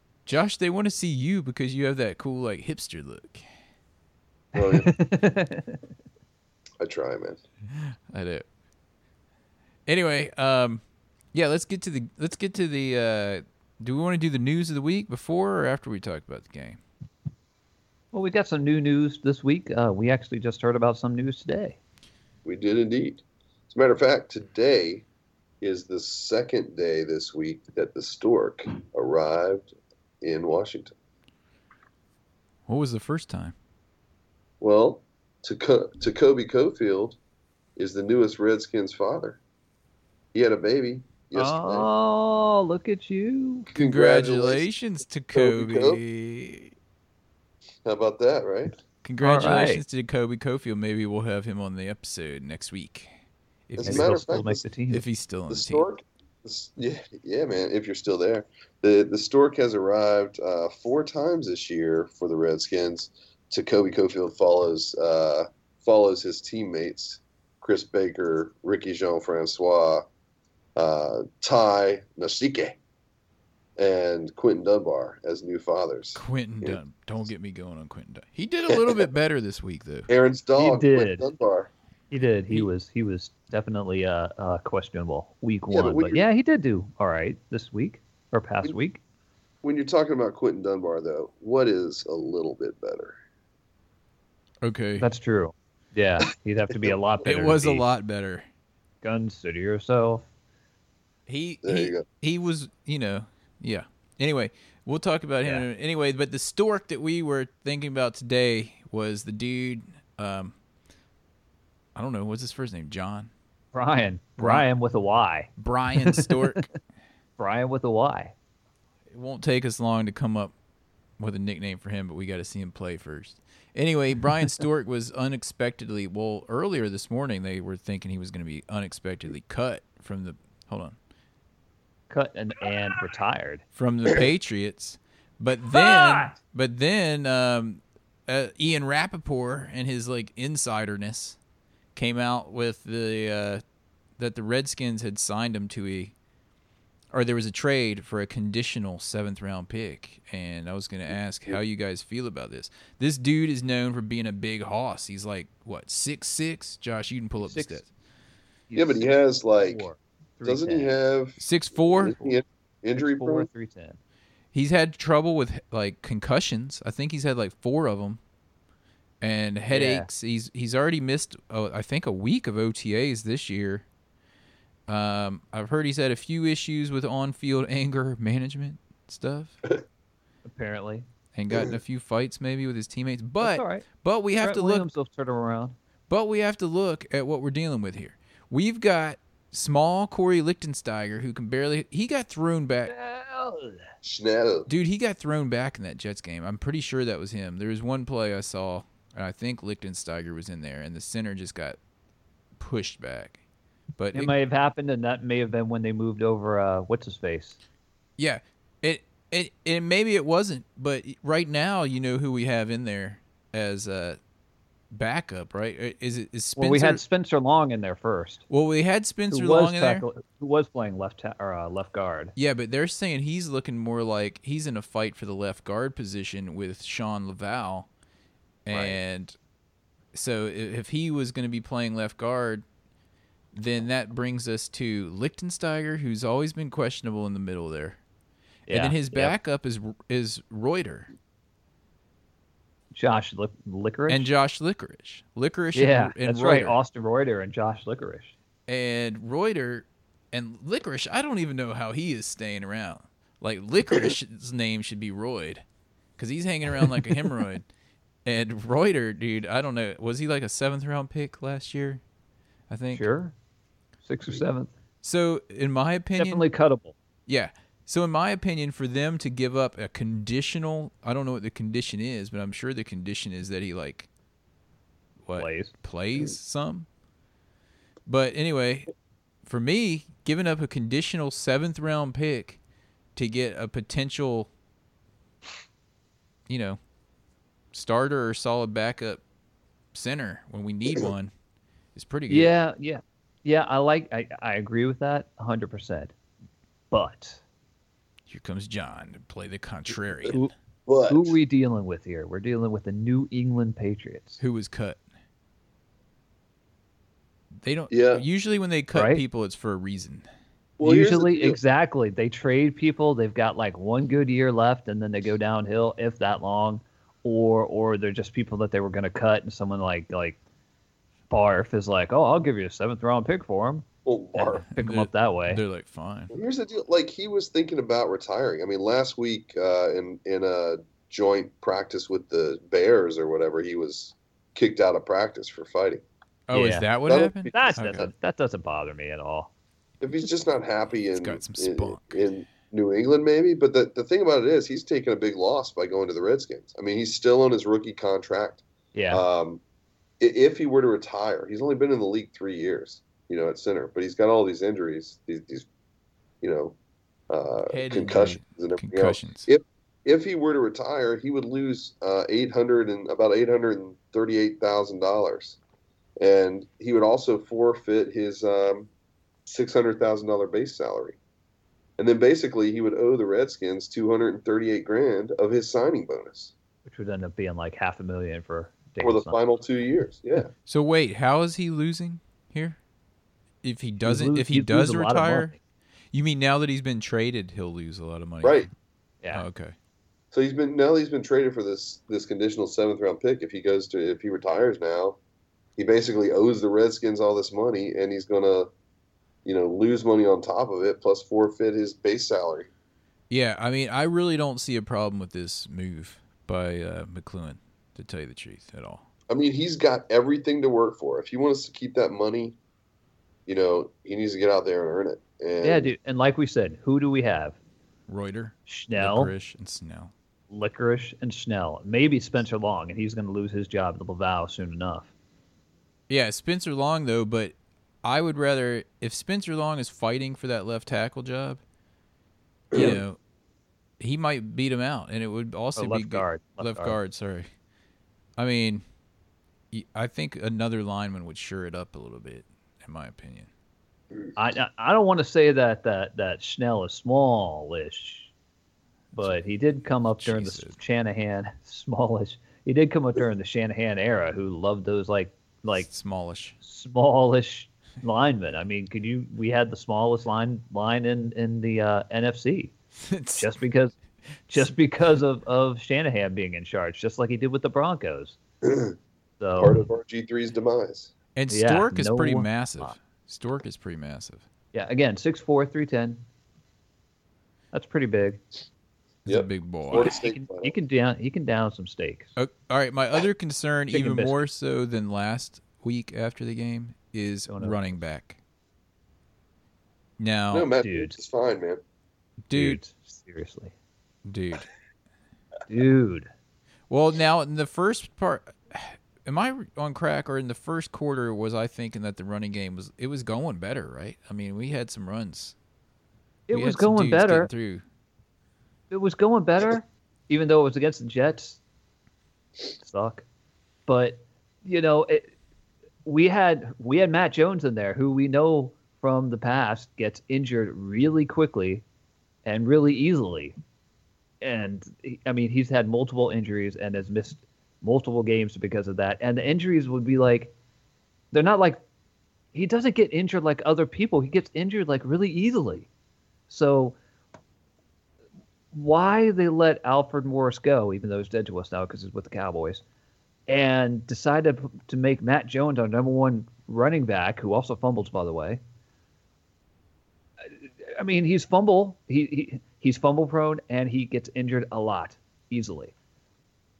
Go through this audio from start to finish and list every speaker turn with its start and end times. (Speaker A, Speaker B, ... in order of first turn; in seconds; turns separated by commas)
Speaker A: 0.2-3.5, Speaker B: 4.5-4.9, Speaker C: 4.7-5.8, Speaker B: 6.8-7.4, Speaker A: 7.7-8.4, Speaker A: 9.9-10.8, Speaker A: 11.3-16.8, Speaker C: 18.1-21.8, Speaker B: 22.4-25.0, Speaker B: 25.6-30.9, Speaker A: 32.7-33.5, Speaker B: 34.6-37.2, Speaker B: 37.8-39.4, Speaker B: 40.3-41.9, Speaker C: 41.4-43.7, Speaker B: 43.7-44.6, Speaker A: 43.7-46.7, Speaker B: 45.3-46.0, Speaker B: 47.8-48.8, Speaker A: 49.0-53.1, Speaker C: 49.2-49.8, Speaker A: 53.7-54.2, Speaker B: 53.8-54.6, Speaker C: 53.8-55.0, Speaker A: 54.9-55.8, Speaker B: 55.5-70.0, Speaker B: 70.8-72.8, Speaker B: 73.8-76.8, Speaker A: 76.1-80.1, Speaker B: 78.8-79.0, Speaker B: 80.1-81.7, Speaker C: 80.6-81.2, Speaker C: 82.1-89.0, Speaker B: 85.7-86.2, Speaker B: 89.6-93.2, Speaker A: 94.6-95.1, Speaker C: 95.0-97.8, Speaker A: 97.2-98.4, Speaker C: 99.0-100.2, Speaker A: 101.3-110.5, Speaker B: 101.6-102.0, Speaker A: 111.9-113.3, Speaker C: 113.7-116.6, Speaker A: 114.4-114.6, Speaker A: 115.6-116.7, Speaker C: 117.4-118.3, Speaker A: 119.1-120.5, Speaker A: 121.2-130.9, Speaker C: 132.1-133.6, Speaker A: 133.8-141.4, Speaker C: 135.7-136.3, Speaker A: 141.9-143.6, Speaker A: 144.2-146.1, Speaker A: 147.1-157.9, Speaker C: 157.4-157.8, Speaker C: 158.7-160.9, Speaker B: 158.7-159.9, Speaker B: 160.4-163.5, Speaker A: 161.4-162.3, Speaker C: 163.0-164.0, Speaker A: 164.5-168.2, Speaker A: 169.2-173.8, Speaker C: 169.7-170.1, Speaker A: 174.9-179.6, Speaker C: 180.4-181.1, Speaker A: 181.3-184.9, Speaker C: 183.4-183.8, Speaker C: 184.4-185.8, Speaker A: 186.1-192.9, Speaker C: 192.9-193.8, Speaker B: 194.0-194.7, Speaker A: 194.7-201.8, Speaker A: 202.6-203.4, Speaker A: 204.0-204.3, Speaker C: 204.1-207.6, Speaker A: 208.2-214.2, Speaker A: 214.9-217.0, Speaker C: 216.6-218.4, Speaker A: 218.5-220.1, Speaker C: 219.3-222.3, Speaker A: 222.3-227.9, Speaker A: 228.7-229.3, Speaker C: 228.7-229.0, Speaker A: 230.1-232.6, Speaker A: 233.5-238.0, Speaker C: 238.7-239.3, Speaker A: 238.7-241.1, Speaker C: 242.9-244.3, Speaker A: 244.1-246.8, Speaker C: 245.7-248.3, Speaker A: 248.7-255.6, Speaker A: 256.2-257.6, Speaker C: 256.8-257.3, Speaker A: 258.2-262.0, Speaker A: 262.7-263.0, Speaker C: 262.9-263.3, Speaker C: 264.0-264.7, Speaker A: 265.0-266.5, Speaker C: 266.1-266.9, Speaker A: 267.3-274.1, Speaker A: 275.2-276.9, Speaker C: 275.4-275.7, Speaker A: 278.1-278.9, Speaker A: 279.4-282.6, Speaker A: 283.1-284.5, Speaker A: 286.5-286.8, Speaker A: 287.7-289.2, Speaker A: 289.9-291.3, Speaker A: 291.9-292.5, Speaker C: 292.3-296.1, Speaker C: 296.9-297.4, Speaker A: 298.3-300.4, Speaker B: 300.9-301.3, Speaker C: 301.1-304.4, Speaker A: 304.4-305.0, Speaker A: 307.6-310.2, Speaker B: 307.9-308.2, Speaker C: 308.9-309.2, Speaker B: 310.8-311.6, Speaker C: 310.8-320.4, Speaker C: 321.3-325.6, Speaker B: 324.0-324.6, Speaker A: 324.8-326.3, Speaker B: 326.3-336.0, Speaker A: 336.5-338.1, Speaker C: 336.5-336.9, Speaker B: 337.1-337.8, Speaker C: 337.5-339.5, Speaker B: 340.0-349.6, Speaker A: 341.1-342.2, Speaker C: 348.9-349.2, Speaker B: 350.2-355.7, Speaker B: 356.4-356.8, Speaker B: 357.3-365.6, Speaker A: 357.7-359.5, Speaker B: 366.2-368.9, Speaker B: 369.4-371.2, Speaker B: 372.0-376.5, Speaker C: 376.9-379.4, Speaker B: 379.0-380.5, Speaker A: 380.6-382.8, Speaker A: 383.6-385.6, Speaker C: 384.0-385.6, Speaker A: 386.1-388.7, Speaker A: 389.3-389.7, Speaker B: 390.3-395.2, Speaker B: 395.8-398.7, Speaker B: 399.4-402.7, Speaker A: 403.3-409.0, Speaker B: 409.3-412.6, Speaker B: 413.5-415.9, Speaker C: 415.6-417.6, Speaker A: 418.1-420.1, Speaker C: 418.7-419.3, Speaker C: 420.5-425.1, Speaker A: 426.1-431.6, Speaker A: 432.7-433.2, Speaker A: 434.0-437.5, Speaker C: 435.8-437.0, Speaker A: 438.4-438.8, Speaker A: 439.7-443.5, Speaker C: 444.4-448.3, Speaker C: 449.1-455.9, Speaker A: 450.2-450.8, Speaker A: 455.9-456.6, Speaker C: 456.6-462.7, Speaker A: 463.0-463.5, Speaker C: 463.4-463.9, Speaker C: 464.5-468.4, Speaker B: 468.6-468.9, Speaker C: 469.4-469.8, Speaker B: 469.6-471.1, Speaker A: 471.4-474.4, Speaker C: 471.5-472.9, Speaker C: 474.7-476.2, Speaker C: 477.7-478.4, Speaker A: 479.3-480.1, Speaker B: 479.3-480.7, Speaker C: 480.0-482.3, Speaker A: 482.4-488.4, Speaker C: 483.9-484.4, Speaker C: 487.5-487.9, Speaker A: 490.2-490.7, Speaker B: 490.5-491.8, Speaker C: 490.8-491.2, Speaker A: 492.5-492.8, Speaker C: 492.5-493.7, Speaker A: 494.2-494.7, Speaker C: 495.7-496.3, Speaker A: 496.9-505.5, Speaker C: 506.5-507.5, Speaker A: 506.5-507.8, Speaker C: 508.9-511.6, Speaker C: 512.8-513.2, Speaker C: 513.9-515.3, Speaker C: 516.0-521.8, Speaker C: 522.4-523.5, Speaker C: 524.4-530.5, Speaker C: 531.3-531.8, Speaker C: 532.5-535.9, Speaker C: 536.5-537.0, Speaker C: 538.7-542.8, Speaker C: 543.5-548.6, Speaker C: 550.6-555.9